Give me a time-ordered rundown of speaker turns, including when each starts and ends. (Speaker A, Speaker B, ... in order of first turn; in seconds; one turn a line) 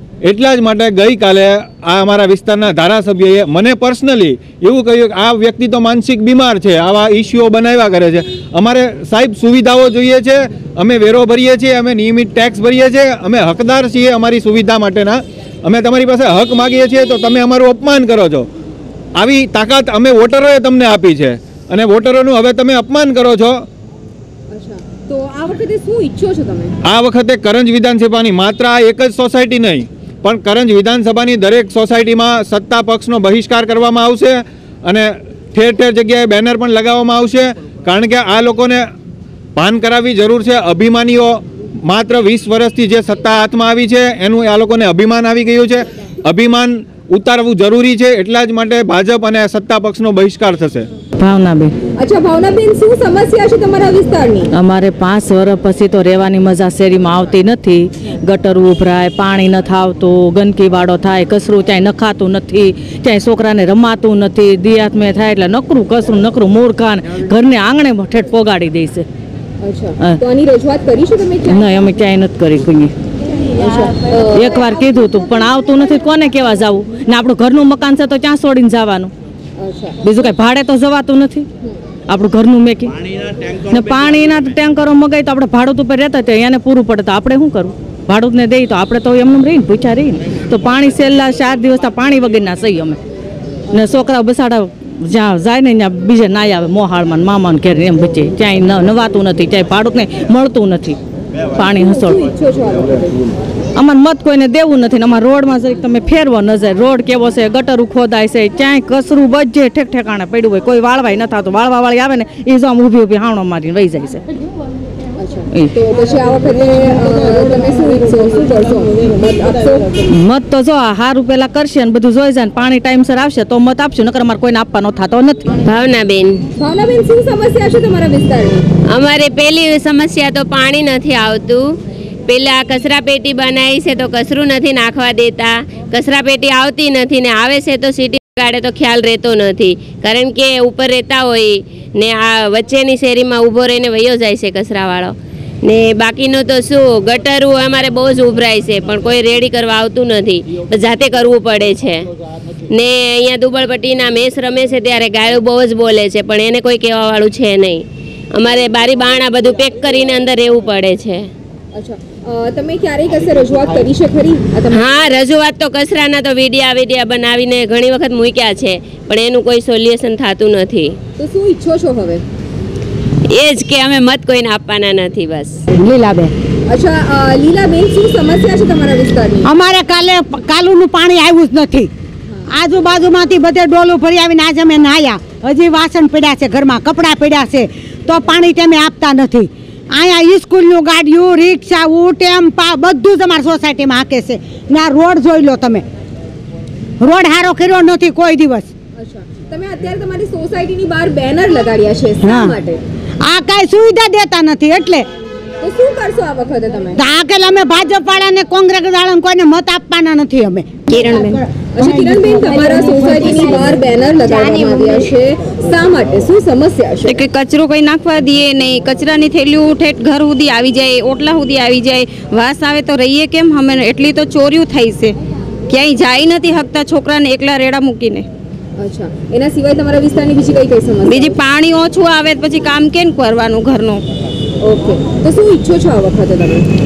Speaker A: 0.2-18.5
Speaker A: 19.2-23.6
Speaker B: 24.5-26.7
Speaker A: 26.9-38.9
Speaker A: 39.6-50.9
Speaker C: 51.2-51.7
Speaker B: 52.0-54.5
Speaker C: 54.5-69.0
Speaker B: 69.6-71.8
Speaker C: 71.5-72.9
Speaker B: 73.6-74.6
Speaker C: 74.3-79.1
Speaker B: 79.6-80.0
Speaker C: 80.0-81.5
Speaker C: 82.1-83.0
Speaker C: 83.7-93.0
Speaker C: 93.7-101.0
Speaker C: 101.6-102.2
Speaker B: 101.7-103.2
Speaker C: 103.8-114.2
Speaker B: 115.2-120.1
Speaker C: 120.1-125.5
Speaker D: 125.7-126.5
Speaker B: 126.6-128.6
Speaker D: 128.9-131.6
Speaker D: 132.3-152.1
Speaker D: 152.7-157.8
Speaker D: 158.3-161.3
Speaker B: 161.7-165.0
Speaker D: 164.7-170.9
Speaker B: 171.2-172.2
Speaker D: 173.3-175.6
Speaker E: 175.8-176.3
Speaker B: 176.7-179.5
Speaker E: 179.4-181.9
Speaker E: 182.5-195.8
Speaker E: 197.0-198.7
Speaker B: 199.0-202.8
Speaker E: 202.2-202.6
Speaker E: 203.3-205.1
Speaker B: 205.6-207.0
Speaker E: 207.0-213.8
Speaker F: 210.9-211.4
Speaker B: 211.7-217.2
Speaker F: 217.1-225.1
Speaker F: 225.7-228.3
Speaker B: 228.8-231.4
Speaker F: 231.1-234.0
Speaker B: 234.6-236.7